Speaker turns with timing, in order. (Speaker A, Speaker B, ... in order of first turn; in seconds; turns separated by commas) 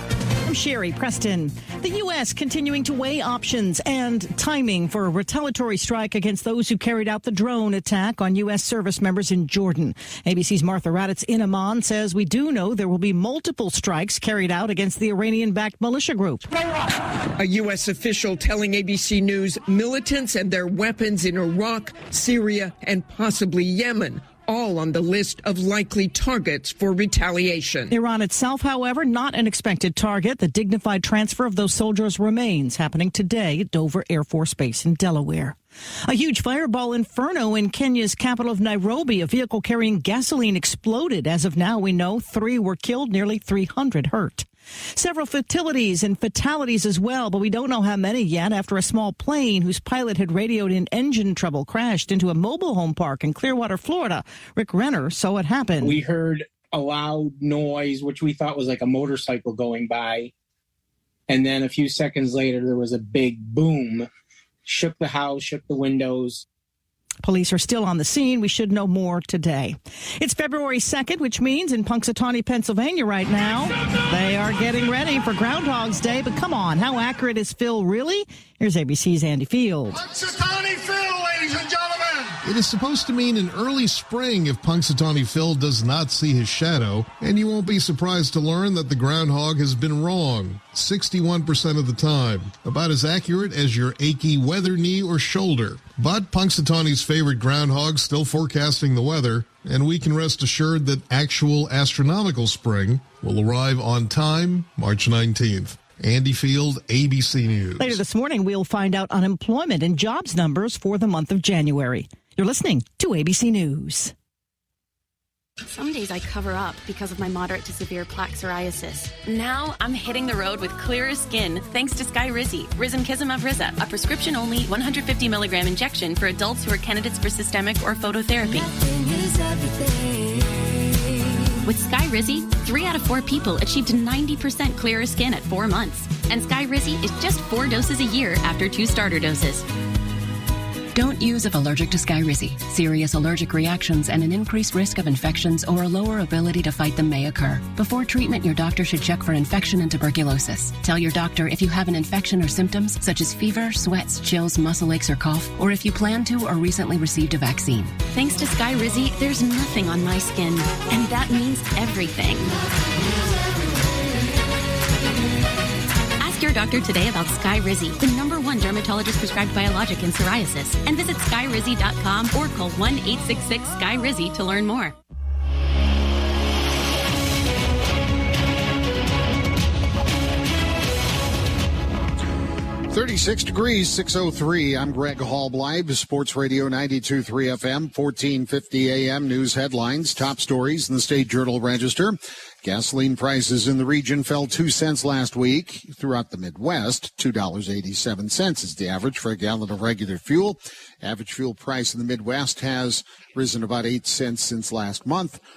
Speaker A: 0.4-16.5, Speaker B: 17.4-27.9, Speaker A: 27.9-56.0, Speaker C: 55.8-60.3, Speaker C: 61.3-64.1, Speaker C: 64.6-66.5, Speaker A: 67.2-80.0, Speaker D: 80.6-81.7, Speaker E: 82.4-108.0, Speaker A: 107.8-114.1, Speaker F: 115.7-128.7, Speaker F: 131.6-139.7, Speaker G: 140.9-158.0, Speaker F: 158.1-162.6, Speaker F: 166.2-174.9, Speaker D: 182.9-205.4